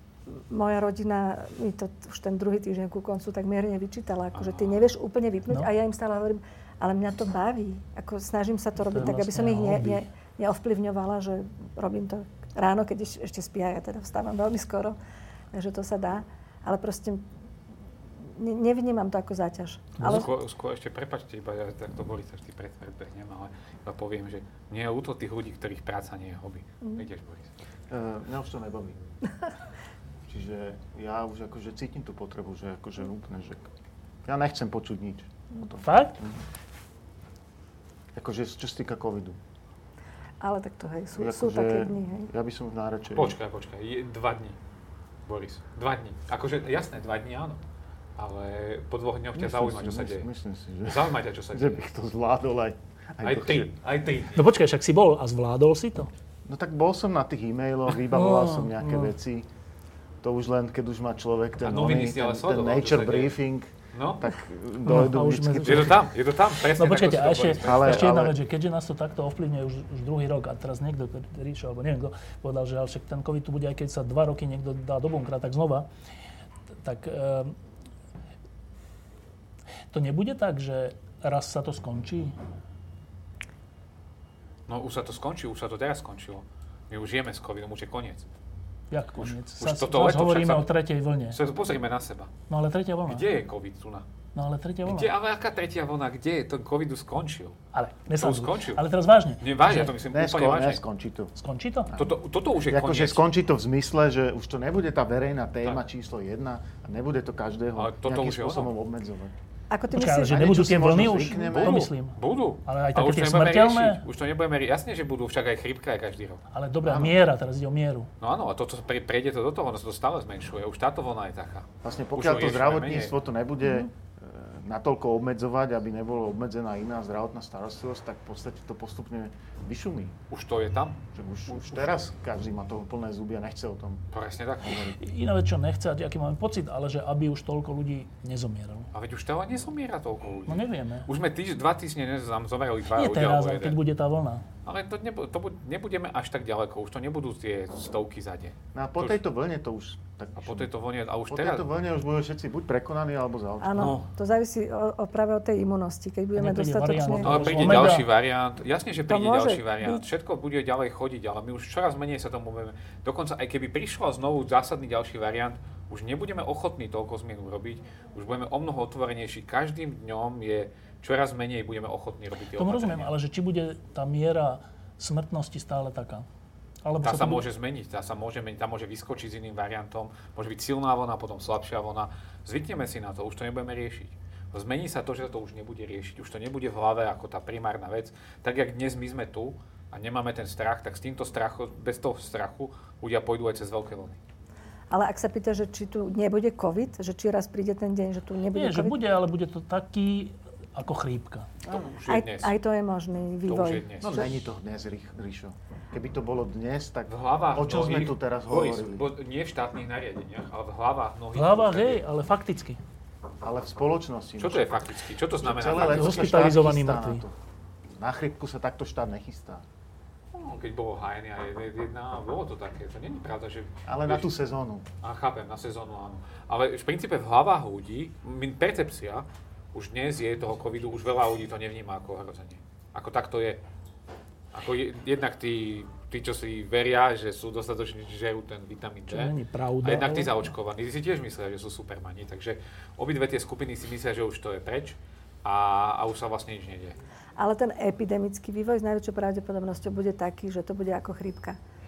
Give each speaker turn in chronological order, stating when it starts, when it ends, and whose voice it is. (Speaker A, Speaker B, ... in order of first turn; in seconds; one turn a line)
Speaker A: 0.3-15.0
Speaker B: 4.3-4.8
Speaker C: 8.9-10.1
Speaker A: 15.5-17.3
Speaker A: 18.2-20.3
Speaker C: 20.0-20.3
Speaker B: 20.0-27.5
Speaker D: 27.9-29.0
Speaker D: 30.3-33.7
Speaker D: 34.2-36.4
Speaker C: 35.8-36.2
Speaker D: 38.1-39.4
Speaker A: 40.4-42.3
Speaker D: 41.1-43.4
Speaker B: 43.1-44.6
Speaker B: 45.3-47.6
Speaker B: 48.2-50.3
Speaker D: 49.4-53.7
Speaker B: 50.9-51.8
Speaker B: 53.2-54.5
Speaker C: 54.3-56.1
Speaker D: 56.5-59.5
Speaker C: 58.1-59.1
Speaker D: 60.2-66.0
Speaker B: 61.6-63.4
Speaker B: 63.9-64.3
Speaker C: 64.9-66.0
Speaker B: 65.6-68.1
Speaker C: 66.7-75.9
Speaker D: 67.6-68.4
Speaker C: 76.8-77.6
Speaker C: 79.9-82.4
Speaker B: 84.7-88.3
Speaker C: 88.9-91.4
Speaker B: 89.2-90.7
Speaker B: 91.3-92.3
Speaker C: 92.5-93.2
Speaker B: 93.1-94.1
Speaker C: 94.3-95.1
Speaker B: 94.8-97.6
Speaker C: 97.7-99.9
Speaker B: 98.2-98.9
Speaker B: 99.4-100.8
Speaker D: 100.1-101.3
Speaker C: 101.4-101.9
Speaker D: 101.9-109.4
Speaker B: 102.0-103.2
Speaker B: 107.8-108.7
Speaker A: 109.7-110.4
Speaker C: 109.9-114.0
Speaker D: 110.1-111.9
Speaker B: 111.4-116.4
Speaker C: 116.5-118.1
Speaker D: 116.8-117.2
Speaker B: 118.2-123.1
Speaker D: 121.8-130.2
Speaker B: 130.3-131.9
Speaker D: 131.1-134.1
Speaker B: 134.1-135.0
Speaker C: 134.9-138.9
Speaker B: 138.9-143.8
Speaker C: 140.5-141.1
Speaker C: 142.9-144.5
Speaker B: 144.7-149.2
Speaker D: 148.7-150.7
Speaker B: 150.4-151.7
Speaker D: 151.3-154.0
Speaker A: 153.6-157.9
Speaker C: 156.4-158.1
Speaker B: 157.2-173.1
Speaker A: 159.1-160.0
Speaker C: 172.6-176.3
Speaker C: 176.8-177.4
Speaker B: 177.0-194.2
Speaker A: 194.9-199.0
Speaker C: 198.5-201.5
Speaker B: 201.7-202.6
Speaker A: 202.0-204.2
Speaker B: 203.5-204.2
Speaker D: 204.0-209.0
Speaker B: 207.1-212.0
Speaker C: 211.3-212.8
Speaker D: 213.4-214.8
Speaker B: 214.4-216.3
Speaker D: 215.4-217.3
Speaker C: 215.9-217.2
Speaker D: 218.0-219.6
Speaker B: 220.4-224.3
Speaker D: 223.9-224.9
Speaker B: 225.0-233.6
Speaker B: 234.5-247.0
Speaker C: 239.1-240.5
Speaker A: 247.4-251.6